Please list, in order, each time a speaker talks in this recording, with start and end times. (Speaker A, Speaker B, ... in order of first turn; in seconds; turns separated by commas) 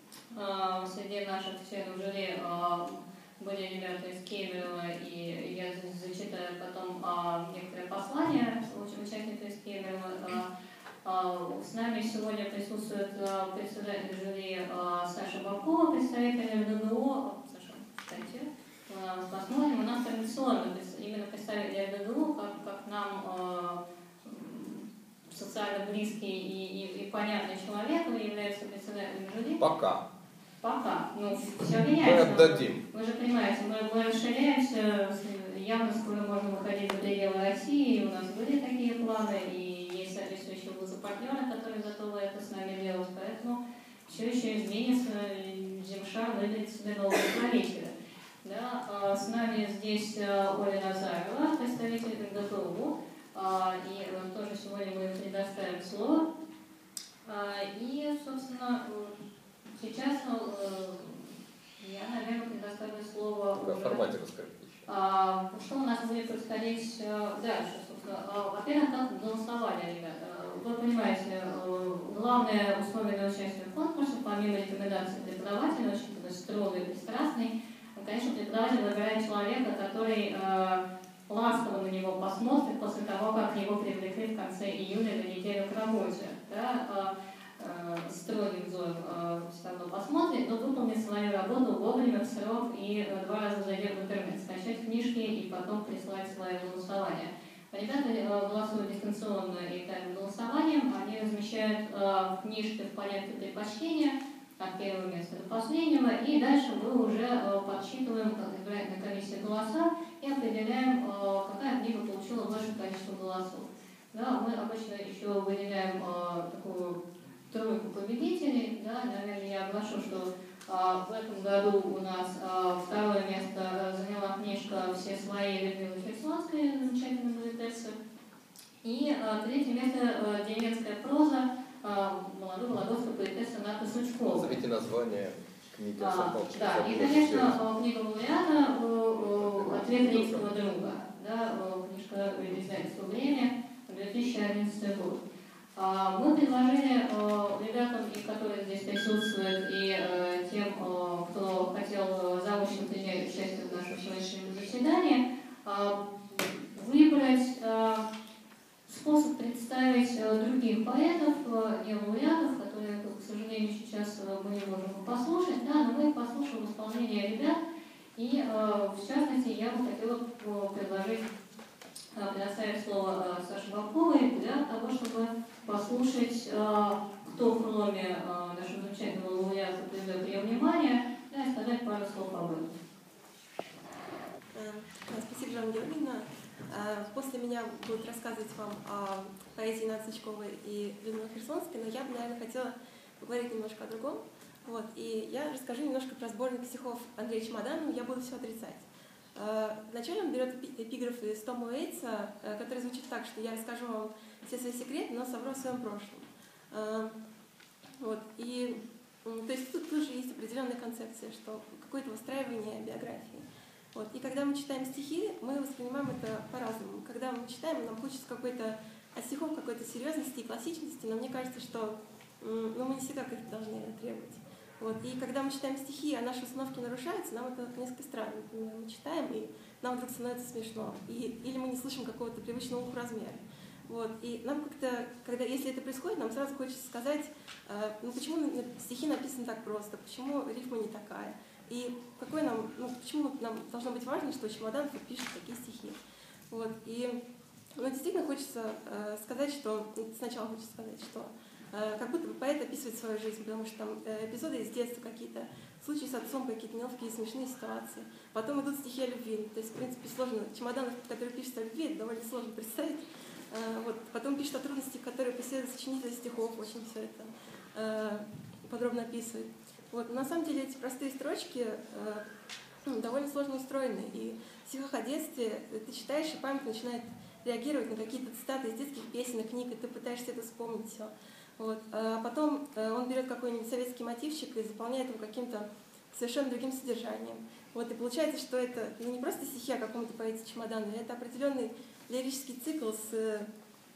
Speaker A: 0.3-10.5, Speaker A: 11.0-29.6, Speaker B: 29.6-30.1, Speaker A: 30.6-47.9, Speaker B: 31.9-32.8, Speaker A: 48.4-56.2, Speaker A: 57.2-59.1, Speaker A: 59.7-64.1, Speaker B: 63.5-64.9, Speaker A: 64.9-128.0, Speaker A: 128.8-134.6, Speaker B: 134.3-137.6, Speaker A: 136.0-145.2, Speaker B: 139.2-140.5, Speaker A: 145.8-158.1, Speaker A: 158.8-167.6, Speaker A: 168.2-171.2, Speaker A: 172.1-182.7, Speaker C: 184.5-207.1, Speaker C: 208.0-246.0, Speaker C: 246.5-247.2, Speaker C: 247.8-272.2, Speaker C: 272.8-293.5